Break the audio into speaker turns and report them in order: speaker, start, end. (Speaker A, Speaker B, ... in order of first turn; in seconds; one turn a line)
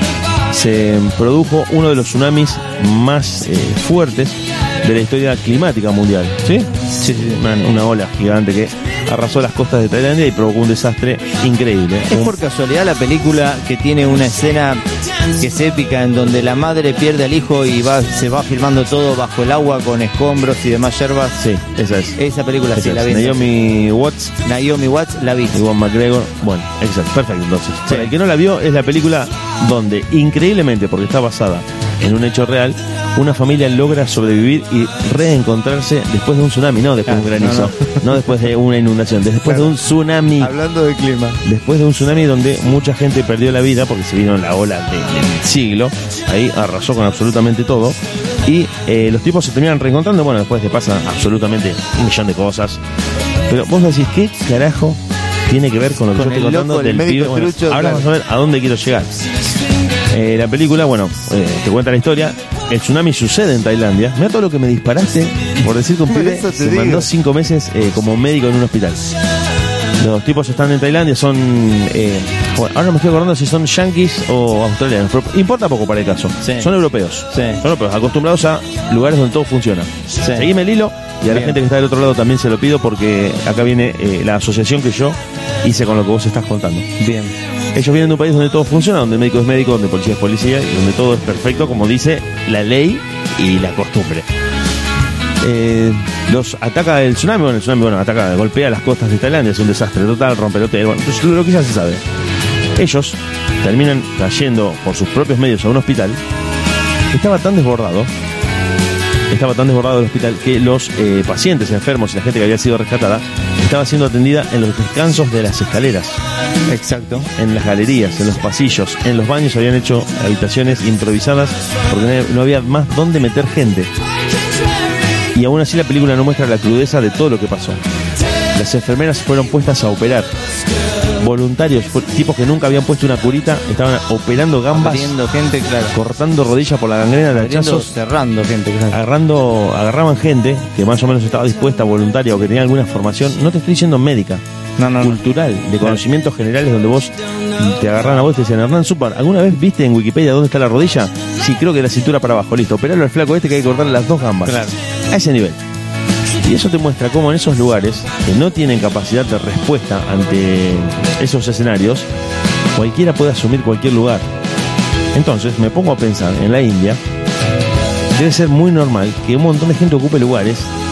Speaker A: 0.5-6.7
Speaker B: 7.0-7.4
Speaker A: 7.2-12.4
Speaker B: 12.1-14.8
Speaker B: 15.4-21.5
Speaker A: 21.4-22.2
Speaker B: 22.2-23.5
Speaker A: 22.7-24.3
Speaker B: 24.4-25.6
Speaker A: 25.5-40.5
Speaker B: 27.9-28.1
Speaker B: 37.1-38.1
Speaker B: 39.4-39.8
Speaker B: 40.4-41.4
Speaker A: 41.4-52.8
Speaker A: 53.5-59.2
Speaker B: 56.1-58.1
Speaker A: 60.1-69.1
Speaker B: 66.0-67.1
Speaker A: 70.0-86.9
Speaker B: 76.4-76.7
Speaker B: 77.3-77.6
Speaker B: 80.2-80.5
Speaker B: 81.3-81.6
Speaker B: 87.0-87.3
Speaker A: 87.7-94.3
Speaker A: 95.4-102.0
Speaker A: 102.8-106.2
Speaker A: 107.1-108.1
Speaker A: 109.3-116.2
Speaker B: 116.7-117.3
Speaker A: 117.4-123.9
Speaker A: 125.3-127.8
Speaker A: 128.5-130.3
Speaker A: 131.2-135.1
Speaker B: 134.7-135.9
Speaker A: 135.9-137.9
Speaker B: 137.3-139.0
Speaker A: 138.9-144.4
Speaker B: 144.8-145.2
Speaker A: 145.0-155.6
Speaker B: 154.4-154.7
Speaker A: 156.4-162.1
Speaker A: 162.7-164.2
Speaker A: 165.1-167.0
Speaker A: 168.1-170.7